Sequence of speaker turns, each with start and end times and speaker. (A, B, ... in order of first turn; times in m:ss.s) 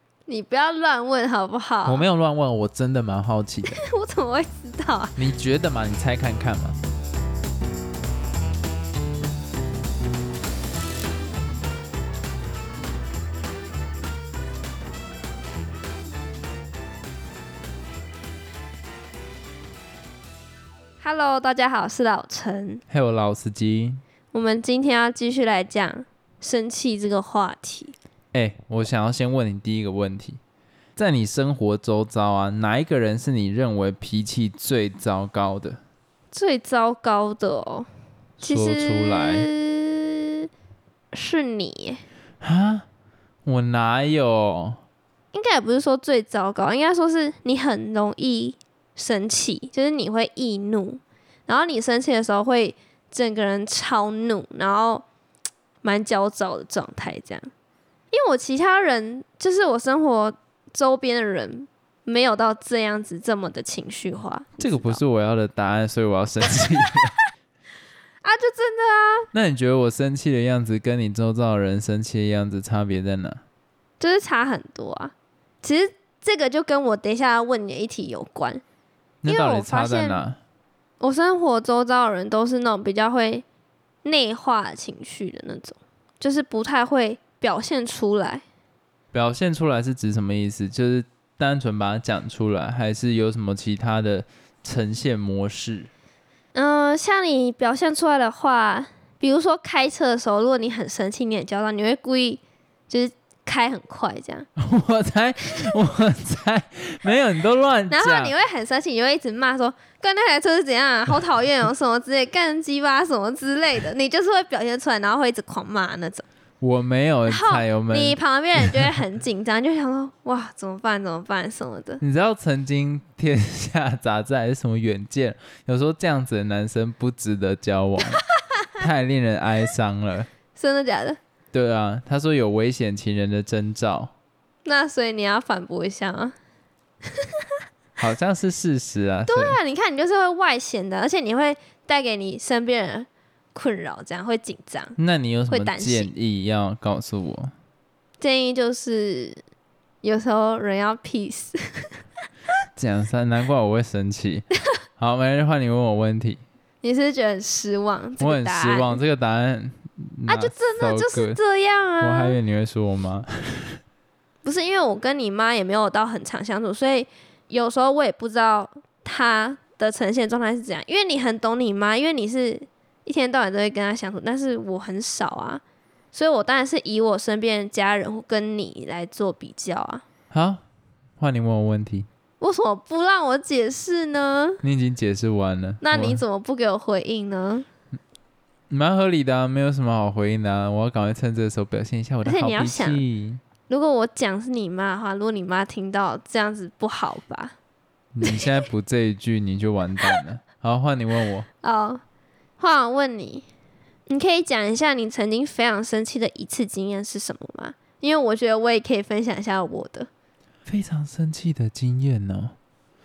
0:00.3-0:02.1 A
0:01.8-0:03.8 B
0:03.8-0:05.1 A
0:05.2-0:06.8 B
0:21.0-0:22.8 A
0:22.9-0:24.0 B
0:24.3-0:27.9 A
0:28.3-0:30.4 B
0:31.0-0:35.8 B
0:36.3-0:37.9 A
0:38.4-0:39.5 B
0:38.4-0:40.5 A
0:41.1-0:42.0 A
0:42.4-0:42.9 B
0:43.5-0:44.8 B
0:45.3-0:55.0 A
0:55.8-0:57.5 A
0:58.1-1:05.0 A
1:04.6-1:07.2 B
1:08.2-1:09.3 A
1:09.3-1:13.4 B
1:14.0-1:18.6 A
1:19.2-1:20.4 B
1:19.2-1:20.2 A
1:21.0-1:23.4 A
1:24.0-1:28.4 A
1:29.1-1:35.9 B
1:36.5-1:44.5 A
1:44.6-1:48.4 B
1:47.9-1:56.3 A
1:56.6-1:58.2 B
1:57.3-2:02.0 A
2:02.0-2:08.2 B
2:08.8-2:10.3 B
2:10.6-2:11.2 A
2:11.5-2:14.1 B
2:14.6-2:16.4 A
2:17.0-2:17.6 A
2:18.0-2:19.6 B
2:19.3-2:25.0 A
2:25.0-2:27.5 B
2:25.5-2:26.1 A
2:28.2-2:29.4 A
2:30.0-2:32.0 A
2:32.8-2:36.4 B
2:36.8-2:39.0 A
2:38.2-2:41.4 B
2:40.3-2:42.4 A
2:42.0-2:43.8 B
2:44.4-2:55.6 A
2:56.1-3:00.0 A
3:00.3-3:00.6 B
3:01.2-3:02.1 B
3:02.4-3:04.6 A
3:04.6-3:06.2 B
3:05.8-3:07.7 A
3:08.7-3:13.4 B
3:12.2-3:13.0 A
3:13.7-3:17.6 A
3:18.1-3:21.5 B
3:21.6-3:22.0 A
3:22.6-3:23.4 A
3:24.1-3:30.1 A
3:30.7-3:32.6 B